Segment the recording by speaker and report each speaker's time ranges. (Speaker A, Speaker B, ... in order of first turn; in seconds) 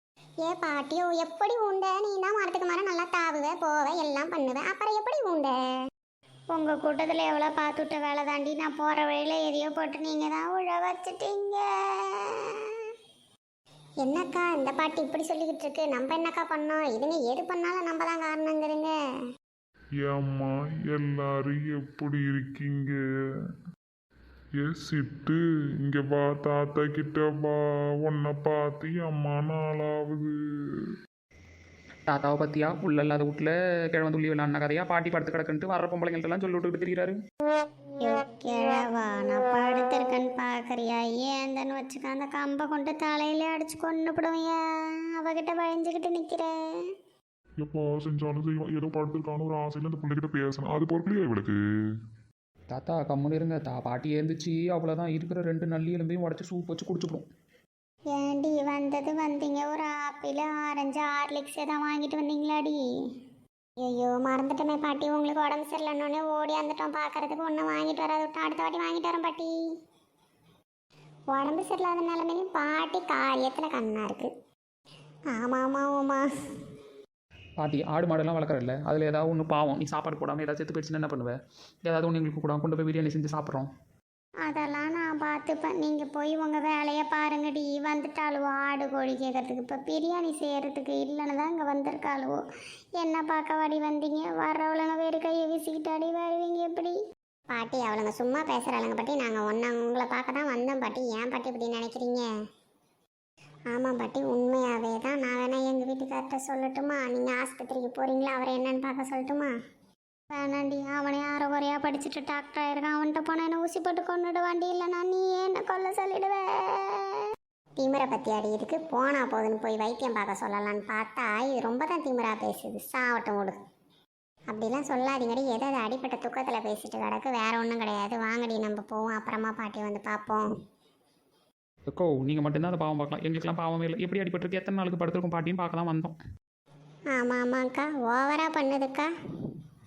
Speaker A: 0.4-5.6, 6.5-12.7, 14.0-18.9, 38.0-46.5, 58.1-62.8, 63.8-69.5, 71.3-74.3, 75.3-76.2, 84.4-92.4, 93.0-97.0, 97.5-102.3, 103.7-109.5, 110.3-117.2, 117.8-123.5, 124.5-130.4, 137.1-139.1
Speaker B: 20.0-23.0, 24.6-30.9, 47.6-51.6
Speaker C: 32.1-37.2, 52.7-57.2, 77.6-83.7, 131.9-136.1